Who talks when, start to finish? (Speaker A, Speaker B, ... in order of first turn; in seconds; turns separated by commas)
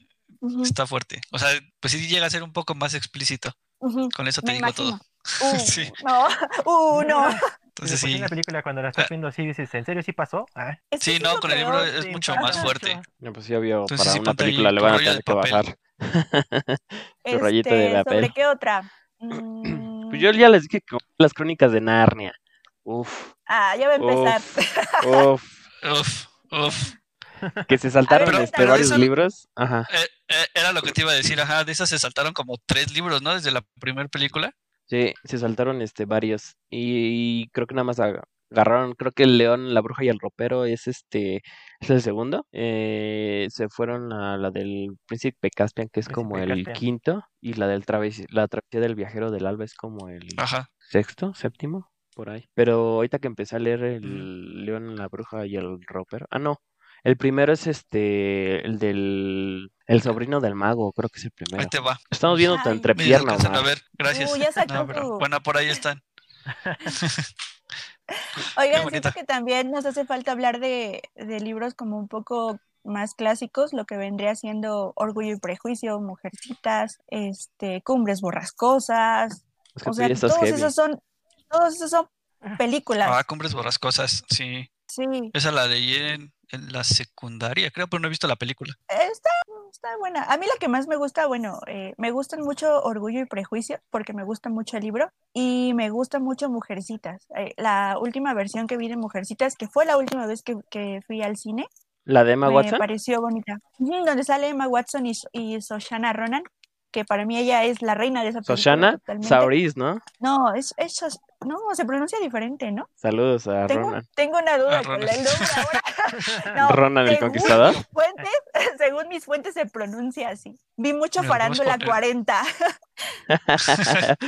Speaker A: 0.4-0.7, Speaker B: 0.6-3.5, Speaker A: 3.8-7.4, Speaker B: 4.1-5.9, Speaker C: 6.9-10.8, Speaker B: 7.8-8.3, Speaker A: 10.9-12.7, Speaker B: 11.0-13.0, Speaker C: 11.9-13.1, Speaker D: 13.2-18.3, Speaker B: 13.9-15.6, Speaker A: 17.2-20.3, Speaker D: 19.6-23.3, Speaker A: 23.5-25.3, Speaker D: 24.0-24.4, Speaker D: 25.0-25.6, Speaker B: 25.8-26.9, Speaker C: 27.4-27.7, Speaker D: 27.7-29.9, Speaker A: 28.1-29.0, Speaker B: 28.2-29.1, Speaker B: 29.9-34.5, Speaker D: 30.8-31.3, Speaker D: 34.9-63.7, Speaker C: 46.1-46.8, Speaker B: 50.4-50.7, Speaker B: 54.0-54.3, Speaker B: 61.5-62.0, Speaker C: 62.2-62.5, Speaker A: 62.5-62.9, Speaker B: 62.9-66.0, Speaker A: 64.1-65.2, Speaker C: 66.5-66.8, Speaker B: 66.9-67.3, Speaker A: 68.2-81.0, Speaker B: 68.7-69.1, Speaker D: 79.8-80.7, Speaker A: 81.5-83.2, Speaker B: 83.0-84.7, Speaker A: 84.9-85.3, Speaker B: 85.3-88.8, Speaker A: 88.9-101.7, Speaker D: 102.0-102.8, Speaker A: 102.4-109.5, Speaker D: 108.5-110.0, Speaker A: 110.2-112.9, Speaker D: 113.0-114.0, Speaker A: 113.7-122.5, Speaker B: 114.7-115.7, Speaker C: 116.1-116.6, Speaker D: 116.6-117.8, Speaker B: 121.2-122.0, Speaker D: 123.3-124.2, Speaker B: 123.7-124.0